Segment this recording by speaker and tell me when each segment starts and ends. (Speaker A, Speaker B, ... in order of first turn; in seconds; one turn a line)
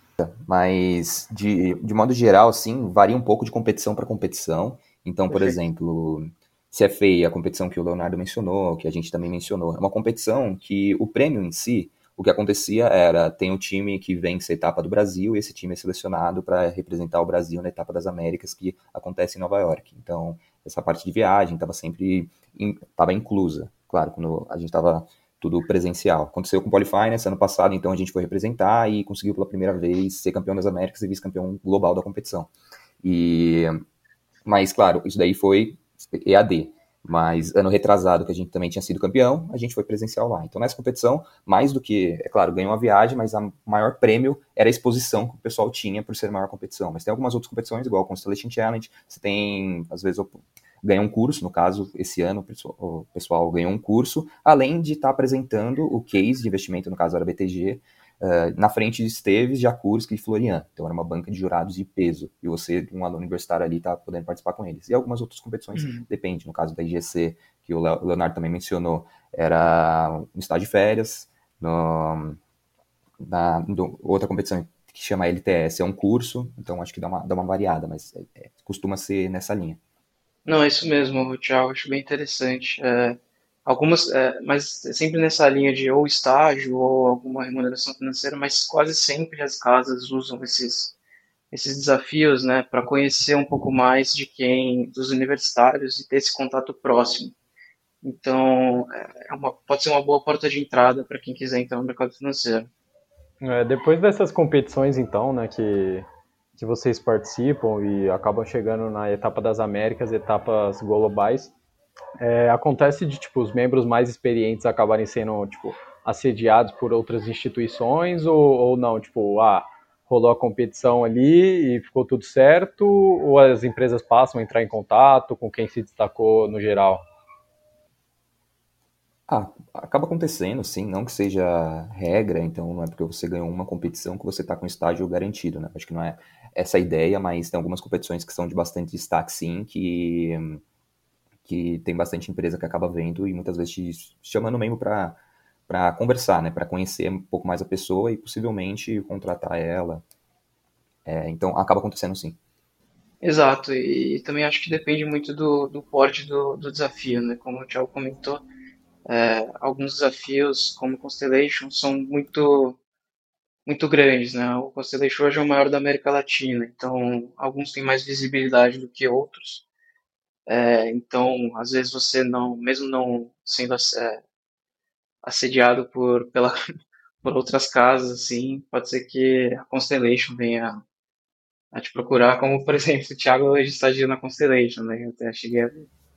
Speaker A: 0.2-32.5
Speaker B: 5.3-5.6
Speaker A: 33.0-33.8
Speaker A: 34.4-72.4
Speaker B: 65.7-66.0
Speaker A: 73.2-79.8
Speaker B: 80.5-90.9
Speaker B: 91.5-97.3
Speaker B: 98.0-102.7
Speaker C: 103.4-106.0
Speaker C: 106.6-111.5
Speaker C: 112.2-127.0
Speaker A: 129.3-140.6
Speaker A: 141.4-150.0
Speaker A: 151.0-152.4
Speaker B: 153.2-158.4
Speaker B: 159.1-162.8
Speaker B: 163.7-169.7
Speaker B: 170.5-174.2
Speaker B: 175.2-176.6
Speaker B: 177.2-180.8
Speaker B: 181.7-185.9